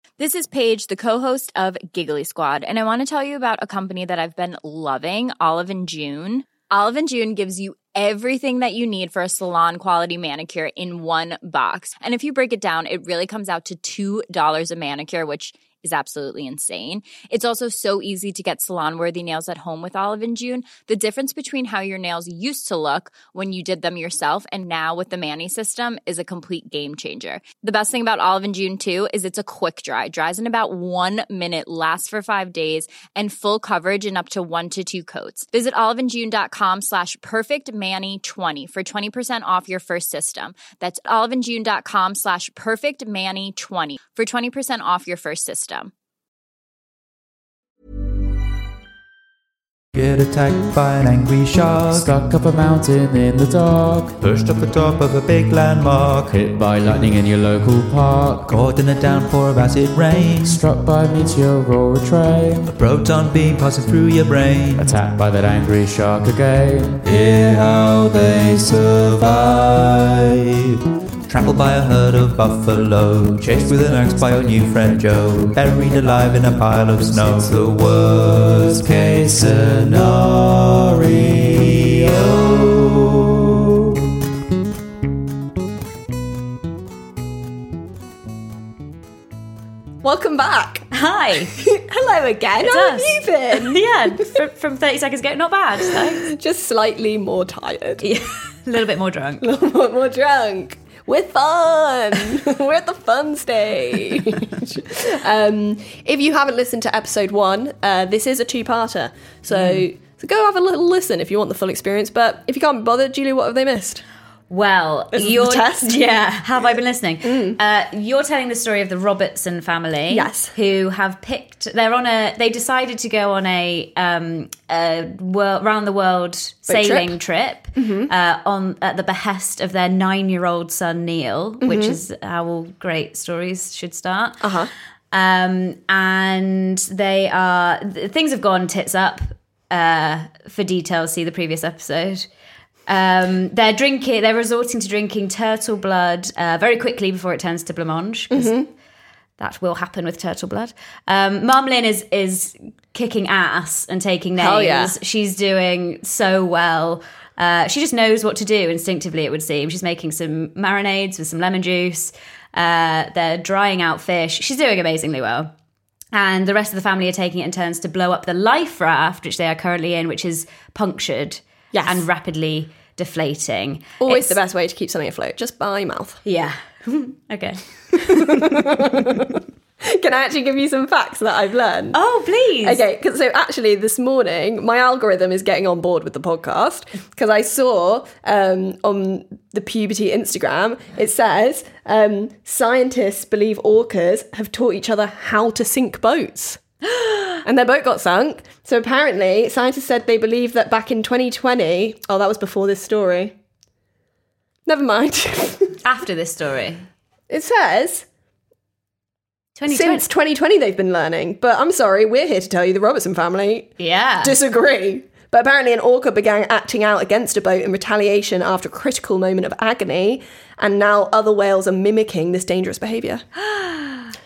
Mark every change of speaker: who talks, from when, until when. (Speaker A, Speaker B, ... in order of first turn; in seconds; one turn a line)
Speaker A: 0.2-45.9
Speaker B: 49.9-52.1
Speaker C: 51.8-54.2
Speaker B: 54.2-56.3
Speaker C: 56.3-58.6
Speaker B: 58.5-60.6
Speaker C: 60.4-62.7
Speaker B: 62.7-64.9
Speaker C: 64.8-67.0
Speaker B: 67.0-70.3
Speaker B: 71.3-83.8
Speaker C: 73.8-74.7
Speaker D: 90.0-90.9
Speaker E: 90.9-91.5
Speaker D: 91.5-93.8
Speaker E: 92.6-96.2
Speaker D: 95.9-98.0
Speaker E: 98.0-99.5
Speaker D: 99.4-114.0
Speaker E: 109.5-109.8
Speaker E: 114.5-134.4
Speaker D: 115.1-116.0
Speaker D: 117.2-117.6
Speaker D: 120.1-120.5
Speaker D: 126.7-127.2
Speaker D: 127.8-128.1
Speaker D: 131.6-132.0
Speaker D: 134.4-134.7
Speaker E: 135.1-142.3
Speaker E: 142.9-148.5
Speaker D: 148.3-148.7
Speaker E: 149.4-165.5
Speaker D: 154.4-154.9
Speaker E: 166.1-174.3
Speaker D: 171.7-172.0
Speaker D: 174.0-176.2
Speaker E: 176.2-178.6
Speaker D: 178.0-182.0
Speaker E: 181.9-182.8
Speaker D: 182.6-196.6
Speaker D: 197.4-203.3
Speaker D: 204.7-205.8
Speaker E: 205.8-206.8
Speaker D: 207.3-208.1
Speaker E: 209.6-210.0
Speaker D: 209.7-223.2
Speaker E: 213.8-214.3
Speaker E: 223.5-224.0